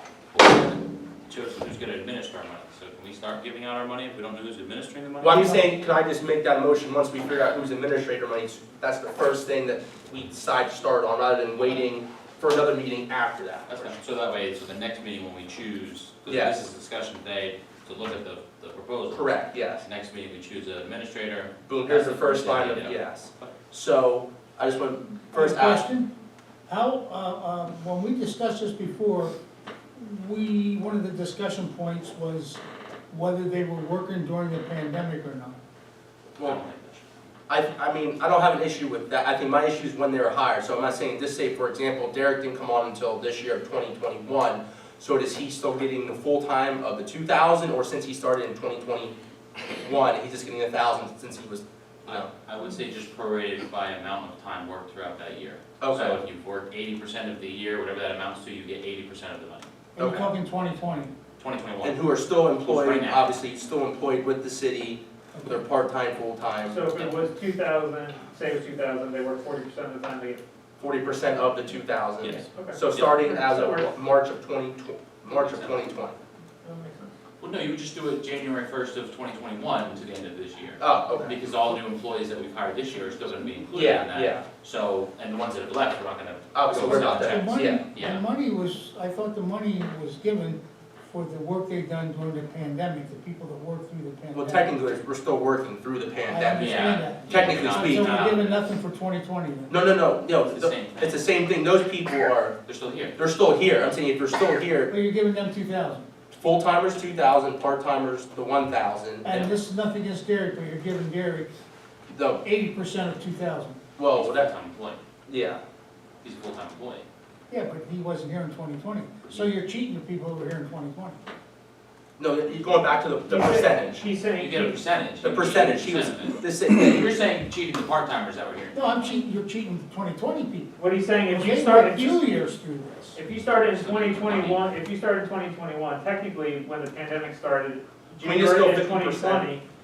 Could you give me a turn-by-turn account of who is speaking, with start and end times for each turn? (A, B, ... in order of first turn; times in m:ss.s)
0:00.3-0:05.6 A
0:05.2-0:13.9 B
0:13.7-0:23.6 A
0:16.2-0:16.5 B
0:19.1-0:19.8 B
0:21.7-0:25.9 B
0:25.3-0:26.1 C
0:26.7-0:29.4 C
0:29.9-0:35.6 C
0:36.4-0:37.1 A
0:37.5-0:52.3 B
0:52.1-0:59.7 A
0:55.8-0:56.2 B
0:59.9-1:01.1 C
1:00.0-1:00.3 B
1:01.4-1:02.0 A
1:01.8-1:06.9 B
1:02.6-1:03.5 A
1:05.3-1:05.6 C
1:06.7-1:10.4 D
1:10.8-1:16.2 B
1:12.2-1:13.1 A
1:12.5-1:13.9 D
1:15.3-1:15.9 A
1:16.6-1:17.1 D
1:17.4-1:28.2 A
1:20.8-1:21.4 B
1:23.7-1:24.4 B
1:26.5-1:27.8 B
1:26.7-1:34.7 C
1:34.3-1:38.3 B
1:36.3-1:39.7 C
1:36.5-1:38.6 A
1:39.7-1:42.6 B
1:40.5-1:41.2 A
1:42.6-1:43.1 A
1:43.2-1:44.9 B
1:44.9-1:46.0 C
1:46.3-1:49.2 B
1:49.2-1:51.5 C
1:49.3-1:49.5 A
1:52.1-1:52.4 B
1:52.4-1:53.8 C
1:54.0-1:54.5 B
1:54.1-1:55.0 A
1:55.3-1:55.6 B
1:56.2-1:57.0 A
1:57.5-2:01.2 C
2:02.2-2:04.0 B
2:03.3-2:04.8 D
2:04.4-2:09.0 A
2:05.2-2:07.2 B
2:08.7-2:10.7 C
2:10.8-2:12.2 D
2:11.3-2:13.2 C
2:13.2-2:19.6 D
2:13.5-2:14.6 A
2:18.2-2:19.5 B